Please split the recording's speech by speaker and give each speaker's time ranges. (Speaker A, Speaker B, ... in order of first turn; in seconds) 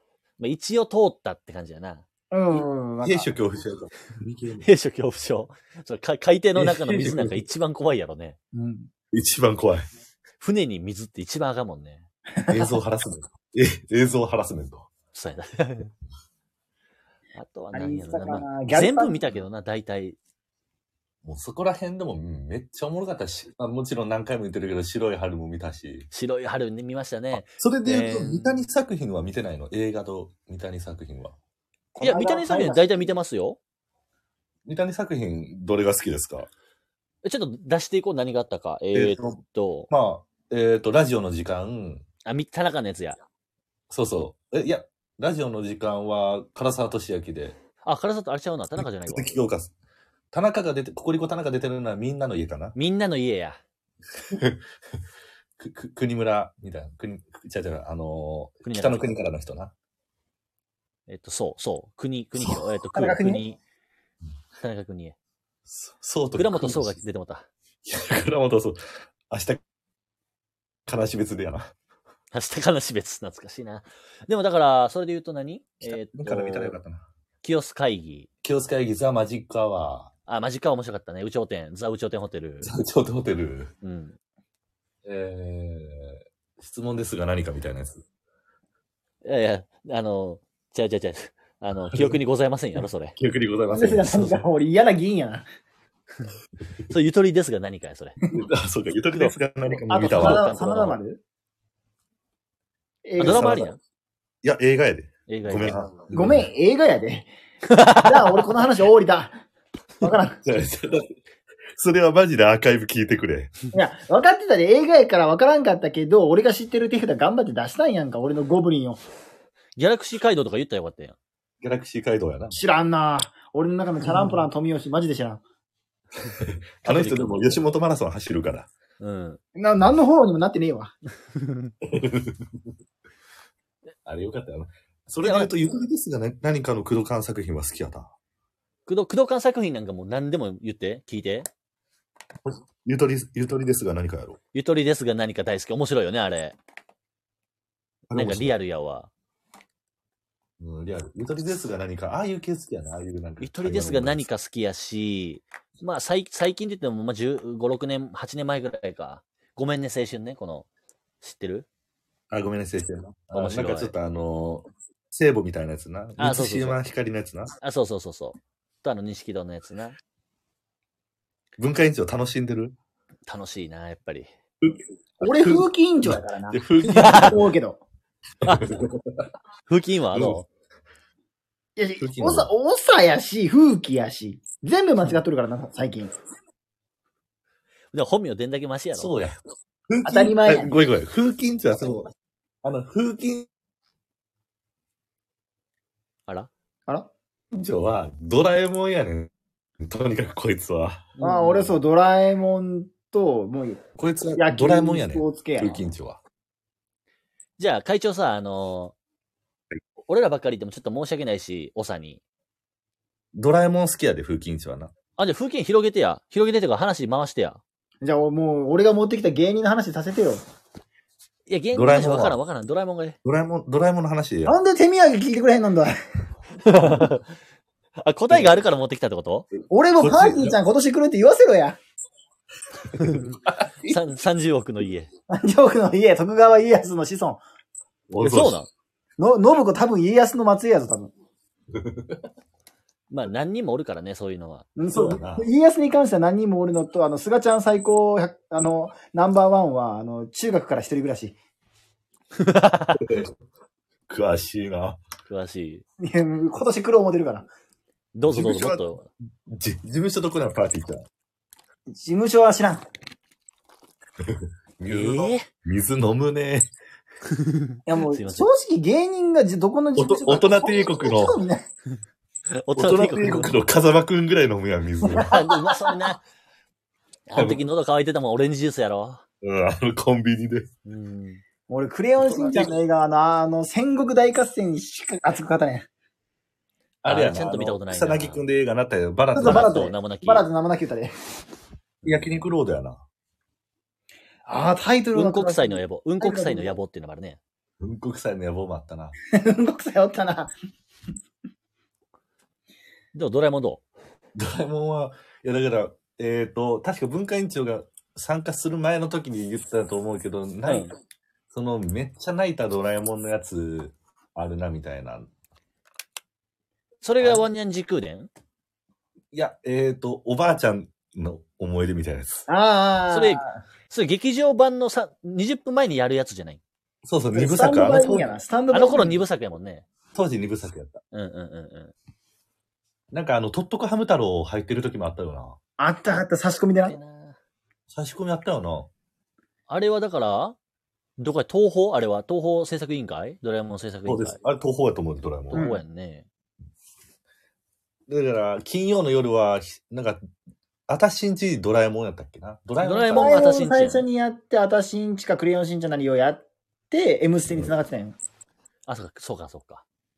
Speaker A: 0.4-2.0, 4.6-8.4, 10.4-12.1, 15.1-15.9, 17.4-20.2, 26.1-28.6, 32.0-33.6, 37.2-39.9, 42.2-43.2, 47.8-49.3, 52.8-53.6, 58.6-59.0, 61.1-63.6, 64.6-65.2, 66.4-67.5, 72.3-76.8, 77.4-78.3, 80.3-82.7, 83.8-84.2, 89.2-93.2, 96.9-98.2, 100.1-101.0, 103.2-103.8, 105.3-105.9, 107.7-108.4, 119.8-121.2, 126.8-127.6, 129.0-129.4, 131.3-131.7, 135.2-135.5, 138.9-141.5, 144.5-146.6, 148.1-149.1, 153.4-160.7, 161.2-161.7, 163.3-163.9, 166.2-166.8, 167.6-170.0, 173.3-174.3, 176.9-177.4, 178.4-178.8, 179.7-180.5, 187.9-189.2, 201.2-201.7, 207.6-209.0, 210.1-212.2, 215.2-217.6, 221.5-223.2, 226.6-227.2, 228.0-229.5, 233.0-235.1, 238.2-238.7, 243.1-244.7, 252.3-253.1, 255.3-255.8, 258.1-259.1, 264.9-265.5, 267.2-268.5, 272.5-273.5, 275.2-276.2, 277.3-279.2, 280.9-281.4, 287.1-288.4, 289.4-290.5, 295.1-297.4, 303.1-303.8, 310.7-310.9, 317.0-318.3, 323.1-326.6, 328.7-329.9, 331.1-331.9, 336.9-337.4, 339.7-340.6, 341.2-344.4, 345.5-346.3, 352.8-354.1, 358.9-359.8
Speaker B: 2.3-3.3, 8.5-8.9, 12.3-12.8, 17.7-19.3, 31.9-33.1, 62.9-63.4, 93.7-95.5, 99.9-101.2, 103.0-103.7, 106.1-109.4, 110.0-110.4, 113.7-119.0, 122.5-125.4, 129.6-130.9, 175.2-177.8, 181.8-186.1, 190.1-190.8, 201.2-203.8, 204.4-205.8, 218.0-220.4, 224.5-225.9, 229.7-231.8, 235.3-237.4, 239.2-241.1, 244.8-251.4, 256.0-257.5, 261.9-262.9, 267.9-271.7, 275.1-276.1, 281.7-285.9, 289.4-291.1, 294.5-296.8, 299.3-300.5, 322.5-323.5, 327.3-329.2, 335.8-337.0, 345.5-345.8, 353.1-358.2
Speaker C: 3.0-4.7, 6.6-7.4, 9.1-9.8, 12.5-14.9, 21.2-26.1, 27.3-31.4, 34.7-36.5, 38.9-42.0, 43.9-47.6, 48.8-49.7, 50.3-52.8, 54.2-54.6, 55.6-59.7, 65.7-67.0, 67.8-68.8, 69.3-69.6, 70.9-71.7, 75.8-77.0, 78.4-80.1, 82.6-83.7, 85.0-88.0, 91.9-92.2, 93.2-94.4, 98.3-100.5, 103.2-103.7, 104.4-106.5, 110.5-111.2, 111.8-113.5, 121.6-122.6, 126.3-128.7, 131.8-132.7, 134.1-138.1, 142.4-144.4, 148.1-148.6, 150.6-154.3, 162.3-167.5, 171.6-172.8, 174.6-177.5, 178.4-179.3, 180.1-180.4, 182.0-182.5, 189.0-189.4, 189.9-192.1, 192.6-193.5, 197.5-201.1, 204.0-206.2, 213.3-214.9, 221.7-222.4, 223.2-224.6, 230.0-230.6, 232.9-234.0, 238.1-238.6, 241.7-242.2, 244.9-245.5, 253.0-253.3, 254.1-255.0, 258.3-258.9, 259.5-261.1, 264.2-266.7, 270.0-271.4, 272.7-275.3, 277.4-277.6, 279.4-280.7, 282.2-282.7, 287.0-289.9, 292.0-293.0, 297.8-299.1, 304.4-310.9, 311.5-315.3, 319.3-322.5, 327.1-328.4, 330.1-331.0, 333.1-335.6, 337.9-338.9, 344.1-345.7, 348.1-350.2, 350.9-353.6